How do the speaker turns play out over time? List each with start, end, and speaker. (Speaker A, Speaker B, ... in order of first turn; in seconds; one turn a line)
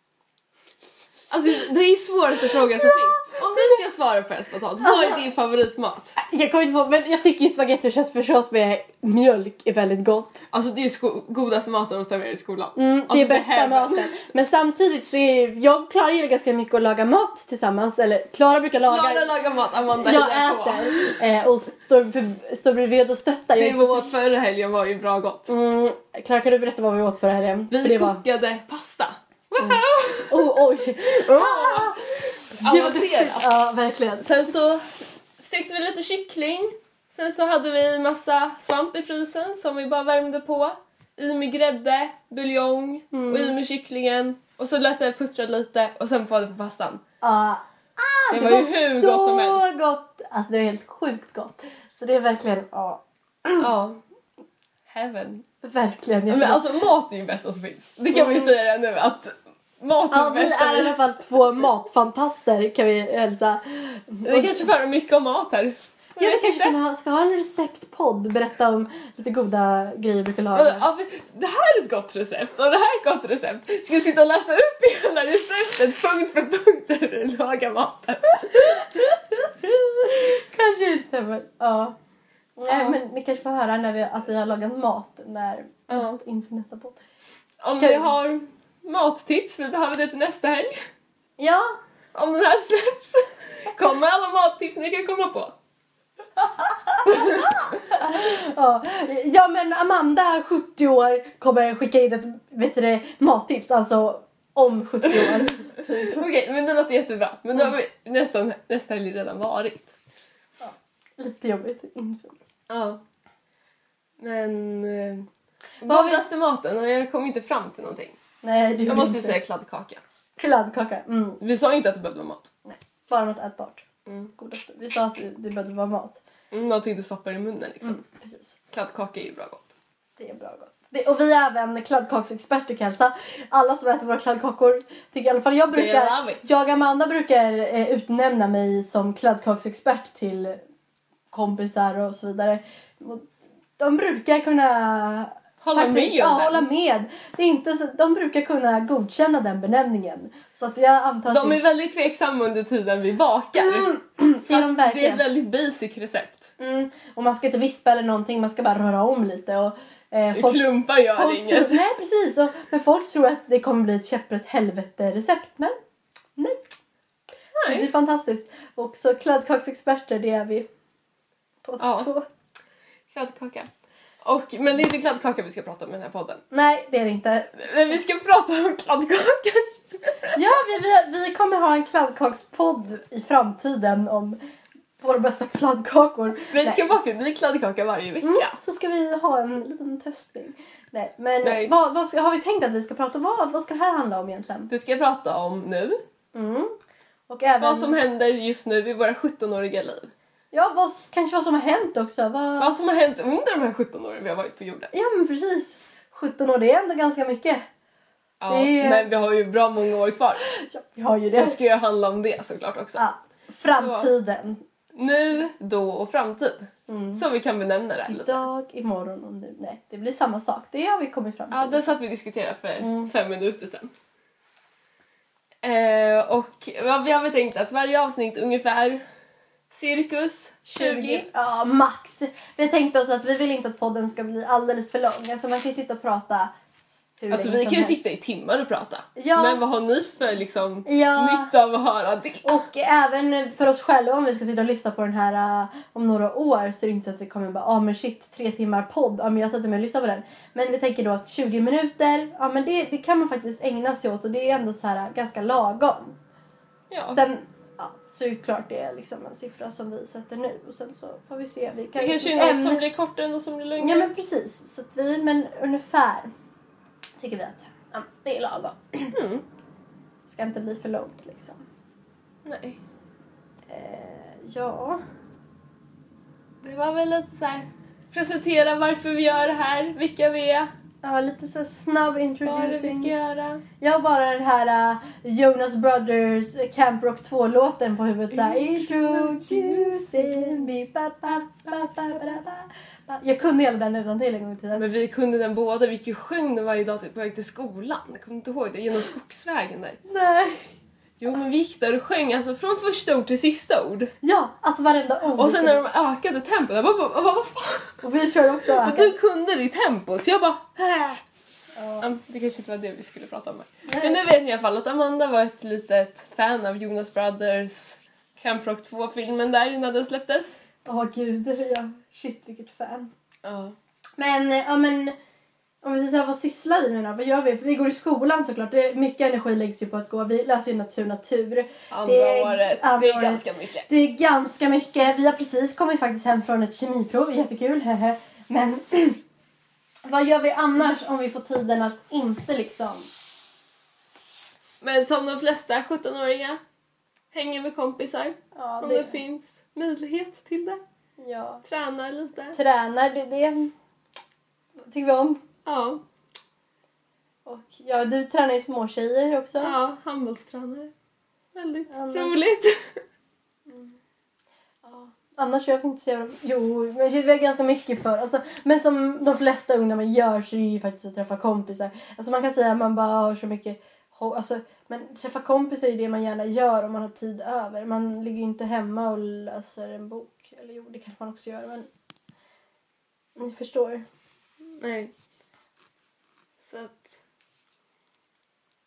Speaker A: 1.3-6.2
Speaker B: 4.8-5.2
Speaker B: 6.2-10.4
Speaker A: 10.5-14.1
Speaker B: 12.8-19.3
Speaker A: 18.8-21.2
Speaker B: 19.9-24.1
Speaker A: 23.5-25.5
Speaker B: 25.5-28.2
Speaker A: 27.7-33.5
Speaker B: 29.6-32.1
Speaker B: 32.6-34.2
Speaker A: 34.2-34.8
Speaker A: 35.4-47.0
Speaker B: 43.1-43.6
Speaker B: 47.2-53.7
Speaker A: 48.3-49.7
Speaker A: 53.6-54.0
Speaker A: 54.9-55.4
Speaker B: 55.6-56.7
Speaker A: 56.3-61.0
Speaker B: 58.1-58.5
Speaker B: 60.1-64.7
Speaker A: 64.2-66.8
Speaker B: 66.2-70.9
Speaker A: 70.5-78.9
Speaker B: 79.6-81.9
Speaker B: 82.6-87.0
Speaker A: 82.7-83.0
Speaker A: 85.9-86.2
Speaker A: 87.6-90.7
Speaker B: 87.8-88.1
Speaker B: 91.4-91.8
Speaker A: 92.1-95.5
Speaker B: 97.0-106.2
Speaker A: 97.1-97.4
Speaker A: 105.0-109.9
Speaker B: 110.6-112.4
Speaker A: 112.7-113.0
Speaker A: 114.2-115.3
Speaker A: 115.8-118.2
Speaker B: 115.8-116.2
Speaker B: 118.4-119.4
Speaker A: 118.9-120.0
Speaker B: 120.4-121.4
Speaker A: 121.4-122.5
Speaker B: 122.6-126.2
Speaker A: 126.5-128.0
Speaker B: 127.8-128.6
Speaker A: 128.7-129.7
Speaker B: 130.2-140.6
Speaker A: 135.7-136.4
Speaker B: 141.3-143.3
Speaker B: 143.8-151.6
Speaker A: 145.6-146.7
Speaker A: 151.3-153.9
Speaker B: 153.5-155.2
Speaker A: 154.5-156.5
Speaker B: 156.6-165.8
Speaker A: 160.3-161.8
Speaker B: 166.3-166.6
Speaker A: 167.6-167.9
Speaker B: 167.6-170.7
Speaker B: 171.6-172.2
Speaker A: 171.8-172.1
Speaker A: 173.1-173.7
Speaker A: 174.2-176.4
Speaker B: 176.5-177.7
Speaker A: 177.6-180.6
Speaker B: 180.3-184.4
Speaker B: 185.0-186.8
Speaker A: 186.5-188.6
Speaker B: 188.2-194.7
Speaker A: 191.4-191.7
Speaker A: 194.7-196.0
Speaker B: 196.3-196.7
Speaker B: 197.3-198.0
Speaker A: 197.6-200.1
Speaker B: 200.5-202.7
Speaker A: 202.6-204.9
Speaker B: 204.9-207.6
Speaker A: 208.4-210.4
Speaker B: 208.5-209.1
Speaker B: 210.5-211.6
Speaker A: 211.2-213.0
Speaker B: 212.9-214.6
Speaker A: 213.6-214.1
Speaker A: 214.9-218.4
Speaker B: 216.9-217.2
Speaker B: 218.1-221.9
Speaker A: 221.5-223.9
Speaker B: 222.8-223.1
Speaker A: 225.6-229.0
Speaker A: 229.7-231.3
Speaker B: 230.7-236.5
Speaker B: 237.2-238.0
Speaker A: 237.3-242.6
Speaker B: 239.2-239.6
Speaker B: 240.8-241.5
Speaker B: 242.4-256.1
Speaker A: 256.9-257.2
Speaker B: 257.1-262.8
Speaker A: 261.9-264.1
Speaker B: 263.8-266.3
Speaker B: 267.2-269.1
Speaker A: 269.1-269.4
Speaker B: 270.2-271.6
Speaker A: 272.4-272.8
Speaker B: 273.7-275.0
Speaker A: 276.6-280.7
Speaker B: 281.0-283.1
Speaker A: 282.4-283.6
Speaker B: 283.8-294.9
Speaker A: 288.3-290.7
Speaker A: 291.7-292.0
Speaker A: 294.8-300.0
Speaker B: 300.1-300.7
Speaker A: 301.2-304.1
Speaker B: 304.2-305.8
Speaker A: 305.4-308.0
Speaker B: 308.0-309.1
Speaker A: 308.6-311.2
Speaker B: 311.8-312.1
Speaker A: 312.0-320.6
Speaker B: 313.9-314.2
Speaker B: 320.8-323.1
Speaker A: 323.4-323.7
Speaker B: 324.2-325.1
Speaker B: 325.8-339.2
Speaker A: 331.9-333.9
Speaker B: 340.0-343.1
Speaker A: 344.8-346.6
Speaker A: 347.3-350.8
Speaker B: 348.5-349.2
Speaker B: 351.2-351.6
Speaker A: 351.6-352.6
Speaker B: 352.5-353.7
Speaker B: 354.9-355.4
Speaker A: 355.6-356.0
Speaker B: 357.4-359.7
Speaker A: 359.6-360.9
Speaker A: 361.5-363.0
Speaker B: 361.9-362.4
Speaker B: 363.7-363.9
Speaker B: 364.8-381.9
Speaker B: 383.4-384.0
Speaker A: 384.8-385.1
Speaker A: 386.6-387.2